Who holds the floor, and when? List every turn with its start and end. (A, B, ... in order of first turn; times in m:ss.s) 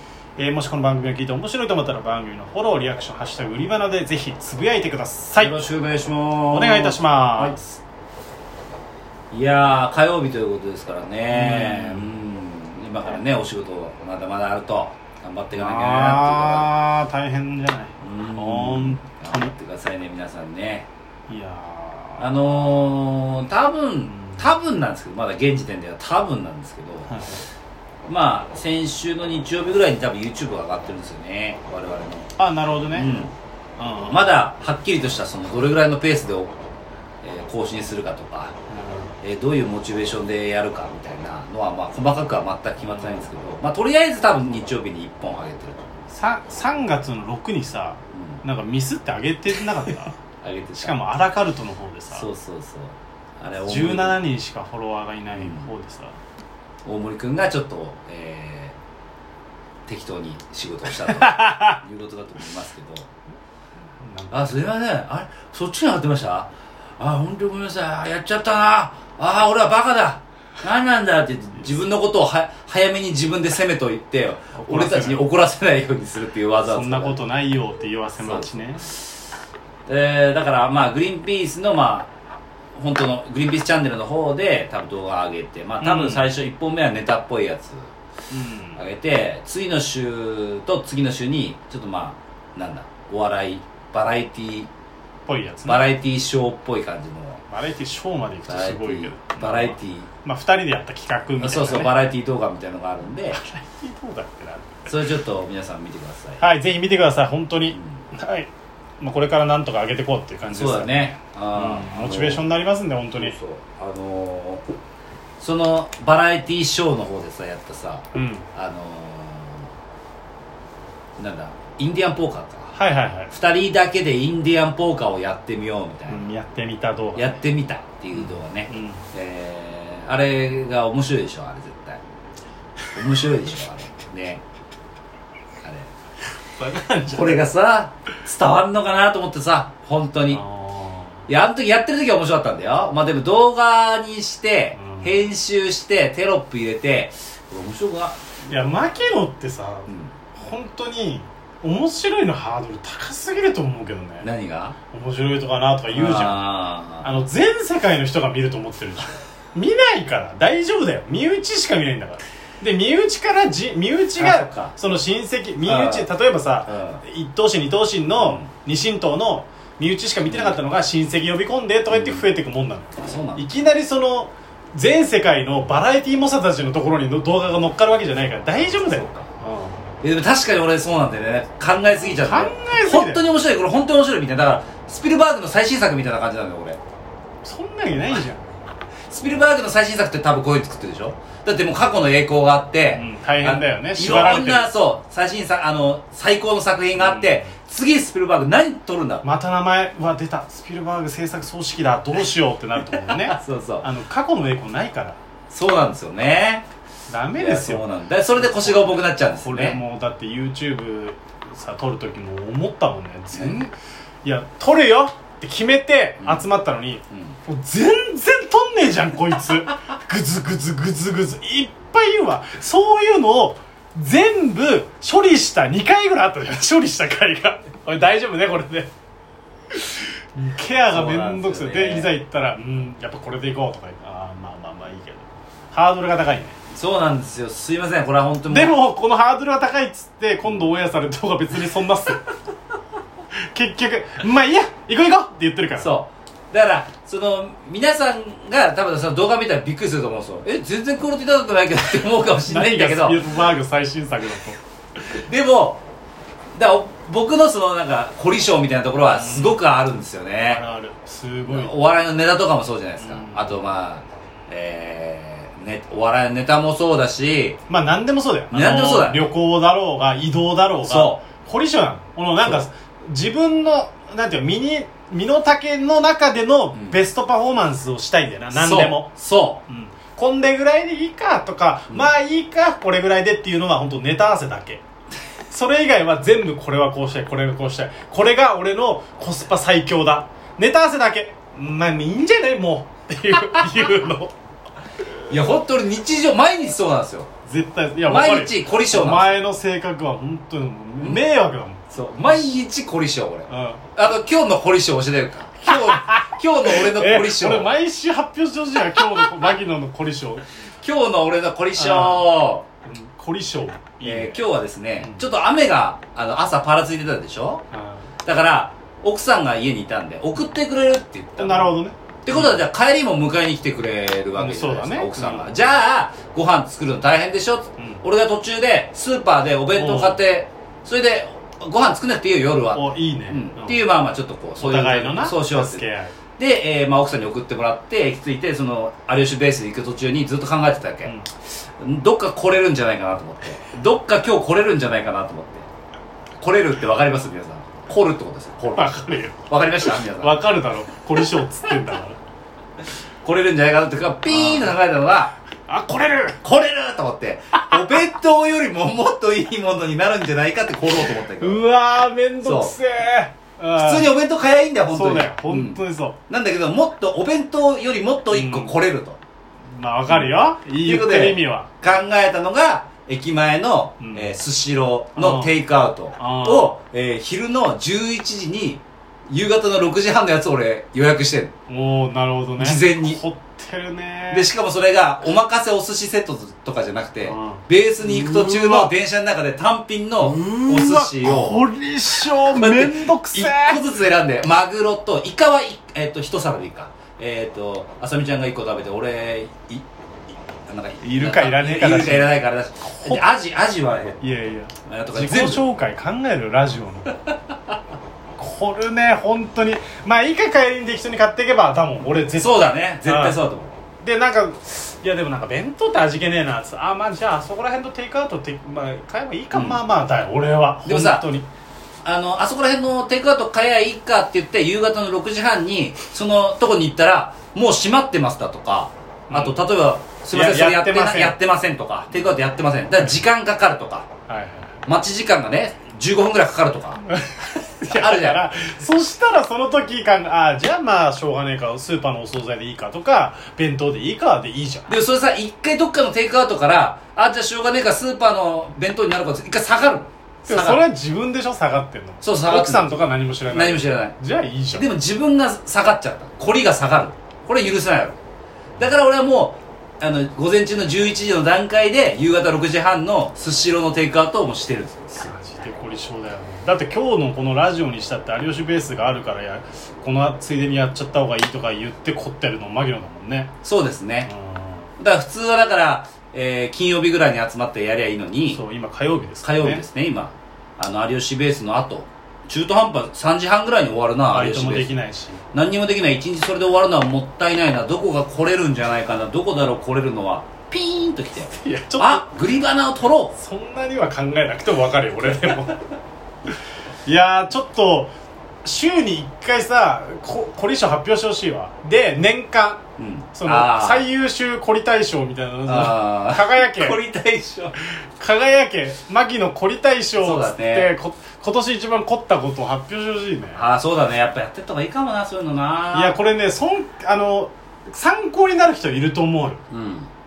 0:00.4-0:05.6 A
0:05.4-0:07.8 B
0:06.5-0:07.6 A
0:09.3-0:16.7 B
0:11.3-0:12.2 A
0:15.5-0:19.5 A
0:18.0-0:20.9 B
0:21.3-0:23.0 A
0:22.2-0:27.1 B
0:24.0-0:24.5 A
0:27.1-0:27.4 A
0:28.1-0:32.3 B
0:32.4-0:34.4 A
0:32.9-0:33.3 B
0:34.0-0:36.5 B
0:37.2-0:38.5 B
0:38.7-0:39.1 A
0:39.2-0:45.9 B
0:42.8-0:43.2 A
0:46.1-0:50.2 A
0:48.1-0:48.4 B
0:50.4-0:51.0 B
0:50.8-0:52.3 A
0:52.1-0:54.2 B
0:53.6-0:56.2 A
0:55.4-0:55.7 B
0:56.8-0:58.8 B
0:59.9-1:03.1 B
1:01.2-1:01.8 A
1:04.0-1:04.6 A
1:04.3-1:17.2 B
1:14.5-1:15.2 A
1:16.6-1:18.9 A
1:18.2-1:19.0 B
1:19.9-1:22.1 B
1:22.7-1:27.9 B
1:25.8-1:26.3 A
1:28.3-1:28.8 A
1:28.7-1:34.7 B
1:35.3-1:35.8 A
1:35.6-1:37.4 B
1:37.5-1:41.9 A
1:38.5-1:40.1 B
1:41.4-1:43.4 B
1:43.3-1:44.9 A
1:44.8-1:46.4 B
1:46.4-1:48.5 A
1:47.7-1:48.0 B
1:49.0-1:53.4 A
1:50.5-1:52.4 B
1:53.1-1:54.6 B
1:55.4-1:59.6 B
1:58.1-1:58.4 A
2:01.2-2:02.7 B
2:02.7-2:03.3 A
2:03.3-2:06.2 B
2:06.1-2:07.4 A
2:07.2-2:12.0 B
2:08.1-2:09.0 A
2:12.9-2:14.4 B
2:15.6-2:15.9 B
2:16.6-2:17.4 A
2:17.1-2:20.4 B
2:20.3-2:21.2 A
2:21.3-2:28.2 B
2:24.8-2:25.2 A
2:28.5-2:34.3 A
2:29.9-2:30.1 B
2:34.2-2:34.8 B
2:34.9-2:36.4 A
2:35.9-2:37.1 B
2:37.0-2:59.8 A
2:44.2-2:44.7 B
2:45.6-2:46.1 B
2:46.6-2:47.0 B
2:48.2-2:48.5 B
2:50.2-2:50.6 B
2:51.9-2:52.3 B
2:53.0-2:53.4 B
2:58.6-2:59.3 B
3:00.0-3:06.8 B
3:02.0-3:03.2 A
3:07.4-3:08.5 A
3:09.1-3:19.2 B
3:12.9-3:14.7 A
3:17.0-3:17.5 A
3:19.2-3:25.2 A
3:22.9-3:23.9 B
3:25.5-3:26.6 B
3:27.1-3:48.9 A
3:27.3-3:29.8 B
3:33.3-3:33.6 B
3:36.2-3:36.5 B
3:37.1-3:37.4 B
3:49.8-3:56.6 A
3:50.9-3:52.1 B
3:56.7-3:58.8 B
3:58.5-4:02.2 A
4:03.5-4:05.9 A
4:05.8-4:13.2 B
4:12.4-4:14.6 A
4:15.1-4:15.8 B
4:16.5-4:20.6 B
4:19.1-4:19.6 A
4:20.5-4:21.7 A
4:21.4-4:27.6 B
4:23.0-4:23.6 A
4:27.7-4:39.1 A
4:28.5-4:29.3 B
4:30.8-4:31.2 B
4:38.5-4:39.6 B
4:39.7-4:44.8 A
4:45.5-4:54.3 A
4:55.3-4:57.3 B
4:57.4-5:02.5 A
4:58.0-4:59.4 B
5:01.9-5:07.7 B
5:03.5-5:03.8 A
5:05.6-5:10.4 A
5:10.8-5:12.6 B
5:11.8-5:12.3 A
5:12.8-5:14.4 A
5:14.0-5:17.6 B
5:15.0-5:15.2 A
5:17.7-5:18.1 A
5:18.2-5:35.8 B
5:21.4-5:22.6 A
5:24.4-5:25.5 A
5:27.8-5:28.0 A
5:29.7-5:30.2 A
5:32.7-5:33.8 A
5:34.6-5:36.1 A
5:36.4-5:41.1 B
5:41.8-5:45.7 B
5:46.4-5:50.4 B
5:48.7-5:52.2 A
5:53.2-5:55.3 B
5:54.3-5:54.7 A
5:55.7-5:56.4 A
5:56.4-6:01.6 B
6:01.4-6:04.1 A
6:02.4-6:02.8 B
6:03.7-6:09.2 B
6:04.9-6:06.2 A
6:08.3-6:08.7 A
6:09.7-6:11.7 A
6:10.1-6:21.5 B
6:14.0-6:14.4 A
6:15.1-6:15.5 A
6:16.2-6:16.7 A
6:21.7-6:24.5 A
6:22.6-6:23.2 B
6:24.3-6:31.6 B
6:27.2-6:28.9 A
6:30.2-6:33.8 A
6:32.2-6:39.8 B
6:40.7-6:44.2 B
6:41.0-6:43.2 A
6:44.2-6:47.2 A
6:44.8-6:45.6 B
6:48.4-6:53.4 A
6:52.3-6:53.8 B
6:54.0-7:01.5 A
6:59.5-6:59.8 B
7:00.8-7:01.2 B
7:02.0-7:14.1 B
7:09.3-7:09.6 A
7:10.3-7:11.4 A
7:14.3-7:14.8 A
7:14.8-7:17.0 B
7:17.1-7:24.9 A
7:17.9-7:18.5 B
7:24.9-7:30.8 B
7:30.4-7:34.9 A
7:32.2-7:34.2 B
7:34.7-7:38.2 B
7:38.8-7:45.3 B
7:45.2-7:53.5 A
7:53.6-7:54.3 B
7:54.3-7:54.9 A
7:55.0-7:58.6 B
7:58.5-7:59.8 A
7:59.4-8:05.0 B
8:04.3-8:05.4 A
8:05.5-8:13.3 B
8:11.6-8:12.3 A
8:13.3-8:15.8 A
8:17.0-8:18.1 A
8:18.6-8:22.8 A
8:23.0-8:24.0 B
8:23.3-8:27.0 A
8:25.6-8:27.7 B
8:28.2-8:33.6 A
8:30.2-8:30.9 B
8:33.6-8:36.2 B
8:35.9-8:39.6 A
8:39.7-8:40.1 B